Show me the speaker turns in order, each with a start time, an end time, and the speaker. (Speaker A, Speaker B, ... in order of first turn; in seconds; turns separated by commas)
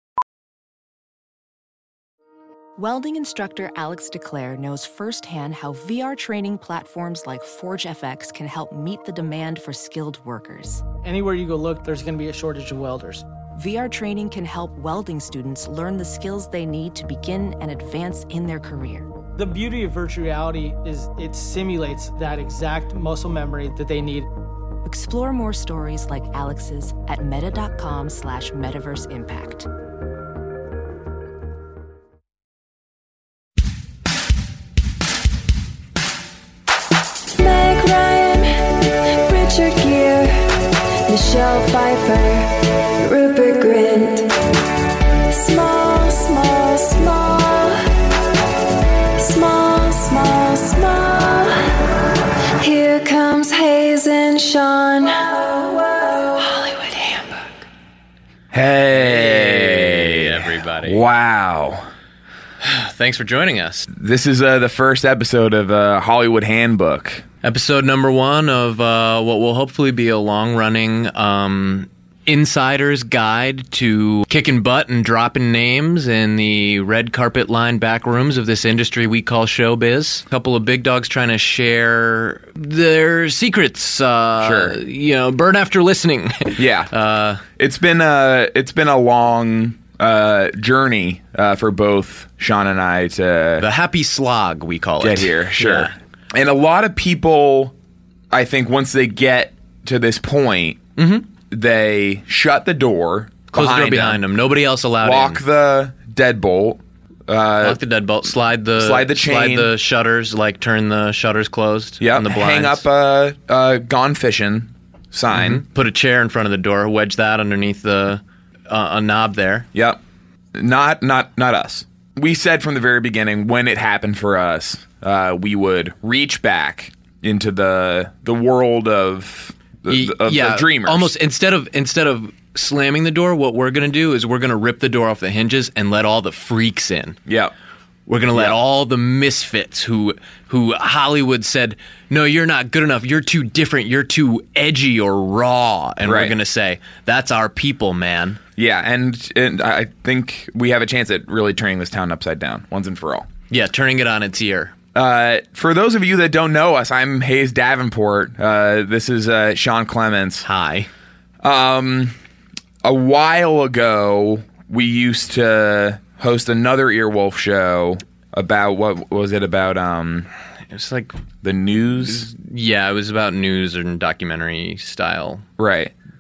Speaker A: 2.8-10.8, Speaker B: 11.0-13.3, Speaker A: 13.6-19.1, Speaker B: 19.4-24.3, Speaker A: 24.8-29.7, Speaker C: 37.4-44.3, Speaker C: 45.3-47.9, Speaker C: 49.2-51.8, Speaker C: 52.6-57.6, Speaker D: 58.5-61.9, Speaker E: 58.9-61.0, Speaker E: 62.6-63.9, Speaker D: 63.9-67.2, Speaker E: 67.4-87.4, Speaker D: 84.4-84.8, Speaker D: 86.6-86.9, Speaker D: 87.5-93.7, Speaker E: 93.6-95.9, Speaker D: 95.0-97.7, Speaker D: 98.3-100.8, Speaker E: 101.0-101.3, Speaker D: 101.5-104.2, Speaker E: 103.5-105.4, Speaker D: 105.0-107.8, Speaker E: 107.6-112.8, Speaker D: 108.8-109.7, Speaker D: 112.0-115.6, Speaker E: 115.3-119.7, Speaker D: 119.7-120.0, Speaker D: 120.5-131.1, Speaker E: 129.9-137.2, Speaker D: 137.3-137.5, Speaker E: 138.1-148.4, Speaker D: 138.3-138.6, Speaker D: 146.0-146.4, Speaker D: 148.6-153.3, Speaker E: 153.5-154.8, Speaker D: 154.9-160.5, Speaker E: 160.4-160.9, Speaker D: 161.4-162.2, Speaker D: 162.8-170.3, Speaker E: 170.7-171.2, Speaker D: 171.4-172.3, Speaker E: 172.0-175.4, Speaker D: 175.6-175.9